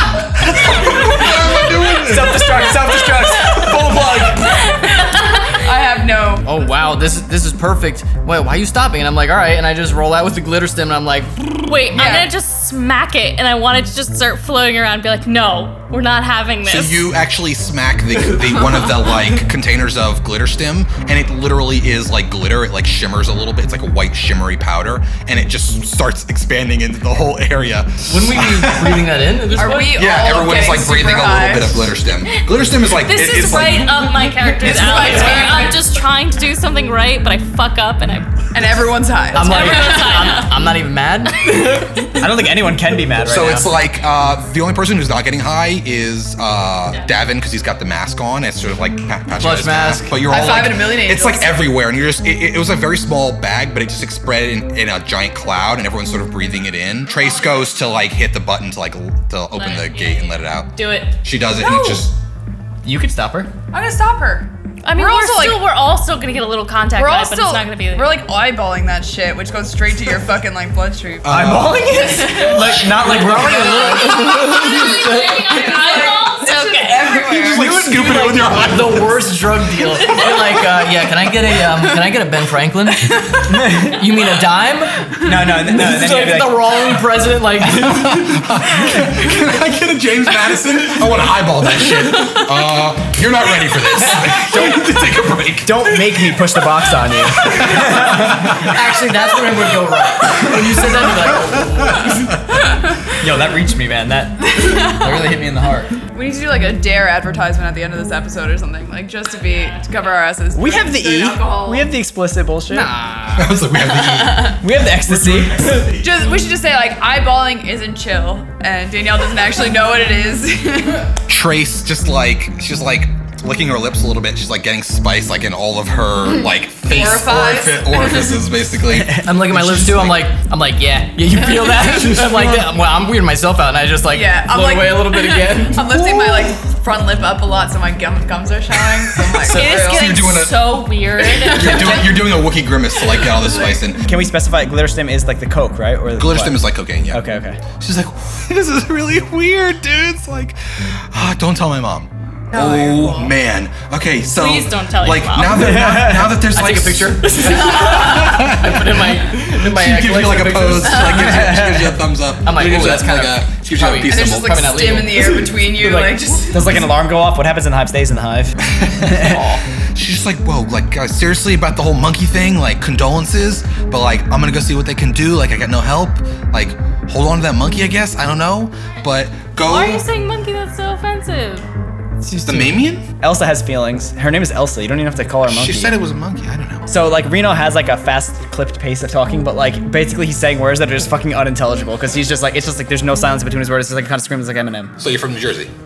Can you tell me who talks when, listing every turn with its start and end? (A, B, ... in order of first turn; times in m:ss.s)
0:00.3-0:02.7 A
0:00.8-0:01.8 B
0:01.9-0:04.7 C
0:04.0-0:06.6 B
0:04.4-0:05.6 D
0:06.4-0:11.8 E
0:11.6-0:17.1 D
0:11.9-0:12.3 B
0:16.6-0:29.2 A
0:28.0-0:30.0 E
0:29.5-0:31.9 B
0:29.9-0:34.2 A
0:32.9-0:38.4 D
0:34.6-0:36.0 B
0:38.5-0:40.4 B
0:39.3-0:42.1 E
0:39.4-0:40.6 D
0:42.2-0:43.7 C
0:43.2-1:02.2 A
0:49.4-0:50.1 E
0:50.2-0:51.8 B
0:57.2-0:57.6 D
0:59.5-1:01.2 D
1:01.6-1:02.1 B
1:02.8-1:03.5 C
1:03.7-1:05.6 B
1:04.8-1:08.2 D
1:07.0-1:17.9 B
1:11.2-1:12.2 A
1:11.3-1:14.4 C
1:12.6-1:14.7 E
1:14.2-1:17.5 D
1:17.3-1:19.4 A
1:18.0-1:28.4 E
1:19.9-1:20.7 D
1:23.5-1:24.0 C
1:25.2-1:26.8 C
1:27.8-1:36.6 A
1:34.2-1:34.8 C
1:35.6-1:38.7 C
1:37.2-1:38.8 A
1:38.6-1:42.3 E
1:40.5-1:42.6 A
1:42.7-1:43.0 B
1:43.2-1:46.0 C
1:44.4-1:45.4 B
1:46.1-1:51.9 B
1:49.2-1:50.2 D
1:50.5-1:52.9 C
1:52.7-1:54.6 B
1:53.1-1:53.4 E
1:53.3-1:56.4 A
1:54.4-1:55.9 C
1:56.0-2:01.1 B
2:01.3-2:10.3 A
2:06.4-2:08.4 B
2:08.9-2:09.3 C
2:09.2-2:16.0 E
2:11.6-2:12.2 B
2:12.3-2:12.7 C
2:14.1-2:20.3 B
2:19.4-2:22.2 D
2:19.5-2:24.0 A
2:21.2-2:22.2 B
2:23.2-2:23.8 B
2:24.0-2:27.6 C
2:26.2-2:45.0 A
2:32.5-2:33.3 B
2:34.3-2:35.8 D
2:35.7-2:36.3 C
2:36.4-2:41.6 E
2:41.5-2:41.8 C
2:42.4-2:45.4 E
2:44.0-2:46.8 B
2:45.7-2:48.6 C
2:48.6-3:00.0 A
2:49.1-2:49.4 C
2:49.2-2:49.6 E
2:59.6-3:01.6 D
3:02.2-3:06.0 C
3:02.4-3:03.0 A
3:05.4-3:06.9 A
3:06.9-3:14.9 C
3:15.0-3:15.7 A